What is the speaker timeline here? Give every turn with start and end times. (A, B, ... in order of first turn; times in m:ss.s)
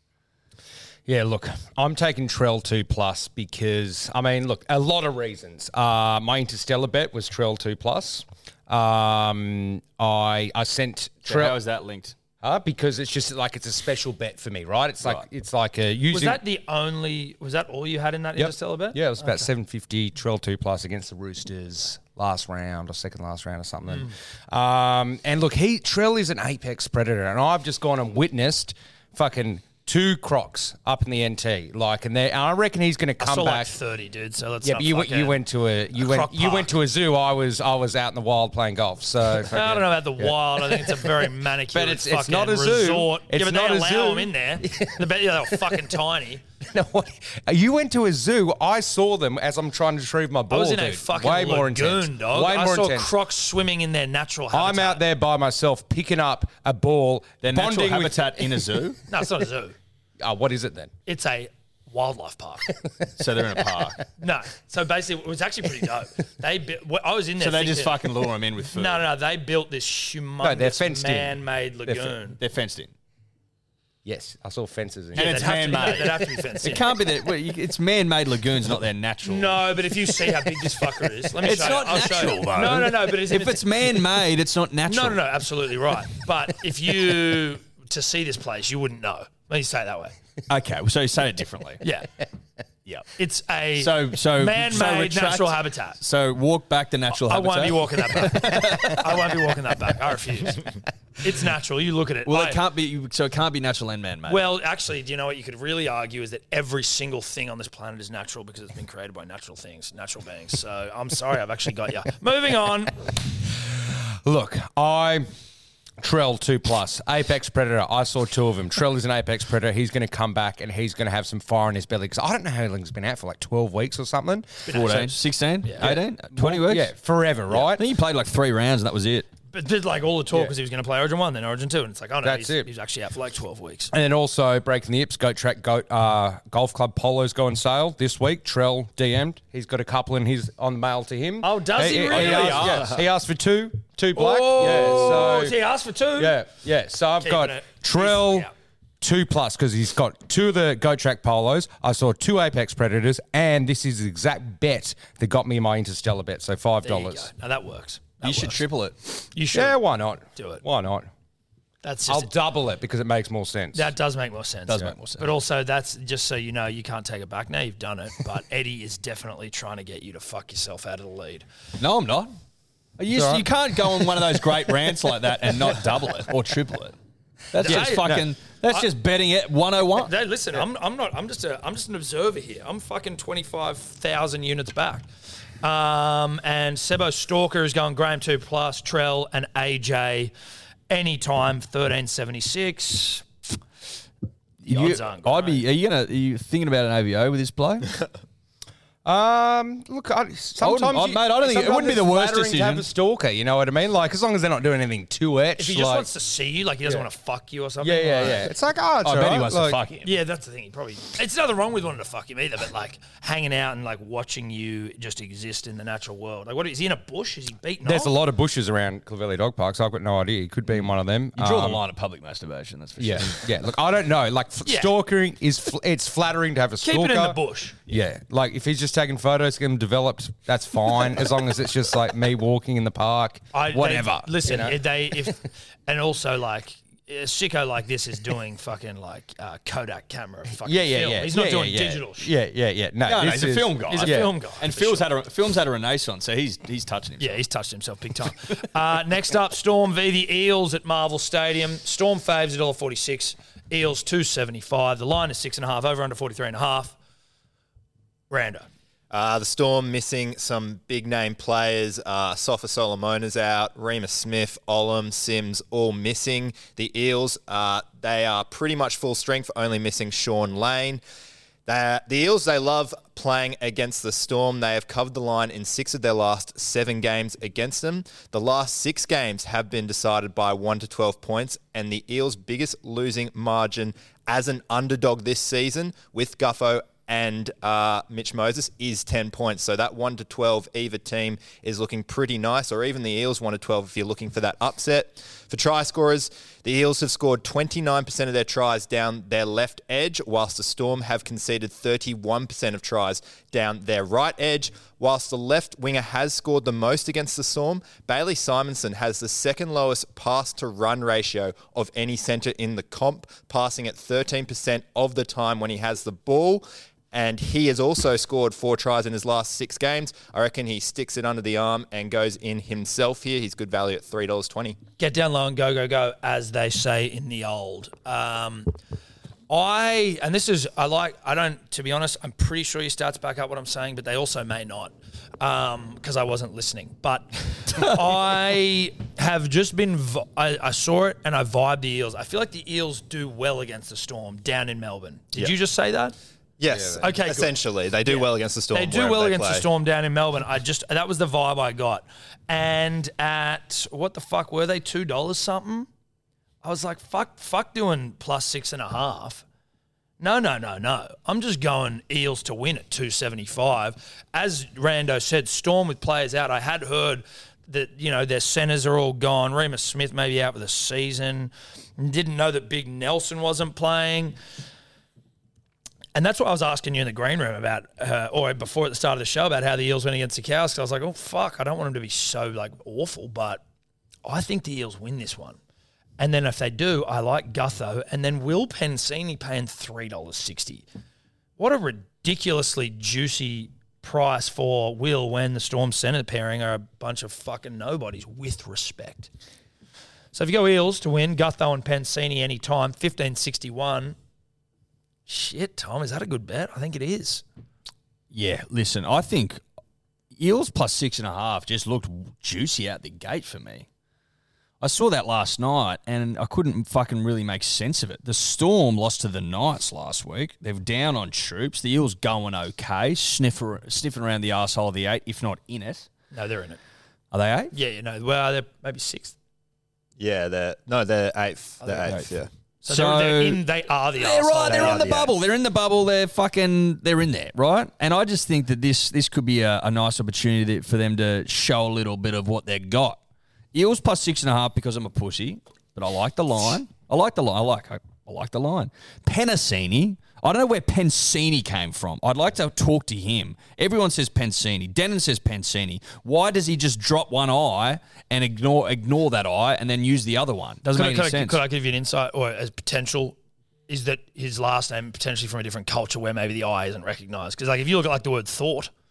0:01.1-0:11.6 A
0:11.3-0:12.2 B
0:12.4-0:16.4 A
0:16.1-0:19.5 C
0:18.4-0:33.7 A
0:33.2-0:35.4 C
0:34.6-0:41.2 A
0:35.9-0:36.7 C
0:39.5-0:46.4 C
0:41.7-0:45.8 A
0:46.6-0:53.1 A
0:50.5-0:55.0 C
0:54.5-0:58.7 A
0:57.4-0:59.0 B
0:59.1-0:59.8 C
1:00.2-1:00.9 A
1:01.1-1:02.8 C
1:03.2-1:04.0 B
1:04.2-1:08.0 C
1:07.4-1:09.0 B
1:08.7-1:12.4 C
1:10.4-1:12.1 A
1:12.4-1:12.9 B
1:14.0-1:16.1 A
1:15.2-1:16.9 C
1:15.2-1:19.6 B
1:19.2-1:23.7 C
1:21.4-1:25.2 B
1:24.9-1:30.1 C
1:30.5-1:31.8 B
1:31.8-1:32.1 C
1:33.2-1:36.0 C
1:33.8-1:39.4 B
1:37.2-1:40.6 C
1:41.2-1:42.6 C
1:42.3-1:44.5 B
1:44.3-1:53.0 C
1:54.2-1:55.3 A
1:56.0-2:04.7 A
2:04.7-2:06.0 C
2:04.7-2:06.9 B
2:05.8-2:07.9 A
2:07.5-2:09.3 B
2:09.5-2:13.9 C
2:12.2-2:12.7 A
2:13.9-2:25.6 A
2:21.4-2:23.0 C
2:21.9-2:22.9 B
2:24.1-2:26.4 C
2:24.6-2:25.2 B
2:26.2-2:28.5 A
2:27.2-2:28.5 C
2:29.0-2:37.3 A
2:36.8-2:38.6 C
2:38.2-2:39.0 B
2:39.3-2:39.8 C
2:39.5-2:41.1 A
2:40.4-2:40.6 C
2:41.8-2:42.3 C
2:42.1-2:43.9 A
2:43.7-2:51.4 C
2:44.7-2:45.3 B
2:51.8-2:52.3 B
2:53.0-2:57.0 B
2:53.1-2:53.5 A
2:57.5-3:00.1 B
2:57.6-2:58.9 C
2:57.6-2:58.3 A
3:00.0-3:05.1 C
3:05.6-3:10.3 C
3:10.9-3:13.5 C
3:14.6-3:18.0 B
3:14.7-3:15.6 C
3:19.0-3:26.1 A
3:20.6-3:22.9 B
3:25.6-3:28.5 C
3:27.8-3:29.8 A
3:29.0-3:30.1 B
3:30.0-3:38.1 C
3:37.8-3:41.8 A
3:40.8-3:43.5 B
3:43.0-3:55.3 A
3:44.7-3:44.9 C
3:46.8-3:48.0 C
3:53.5-4:02.3 C
4:00.6-4:04.3 A
4:03.0-4:07.4 B
4:03.9-4:05.1 C
4:07.2-4:17.0 C
4:18.3-4:18.7 C
4:19.1-4:31.0 D
4:31.7-5:24.8 D
5:25.0-5:28.7 C
5:29.5-5:46.2 C
5:46.6-5:49.7 D
5:46.7-5:47.0 A
5:47.0-5:47.5 C
5:48.1-5:55.9 C
5:56.6-5:59.4 C
6:00.2-6:14.4 C
6:16.2-6:23.6 C
6:24.2-6:25.6 C
6:26.2-6:30.9 C
6:31.6-6:39.3 C
6:40.3-6:44.2 C
6:45.3-6:47.4 C
6:48.3-6:49.6 B
6:50.3-6:53.9 B
6:54.8-7:06.1 B
7:06.3-7:06.8 C
7:07.3-7:07.7 B
7:07.7-7:09.4 C
7:10.2-7:12.5 D
7:11.8-7:12.1 C
7:12.0-7:12.4 B
7:12.8-7:15.1 C
7:12.9-7:13.6 B
7:14.2-7:23.2 B
7:14.7-7:15.3 D
7:23.7-7:41.6 B
7:40.9-7:43.4 C
7:43.9-7:48.9 C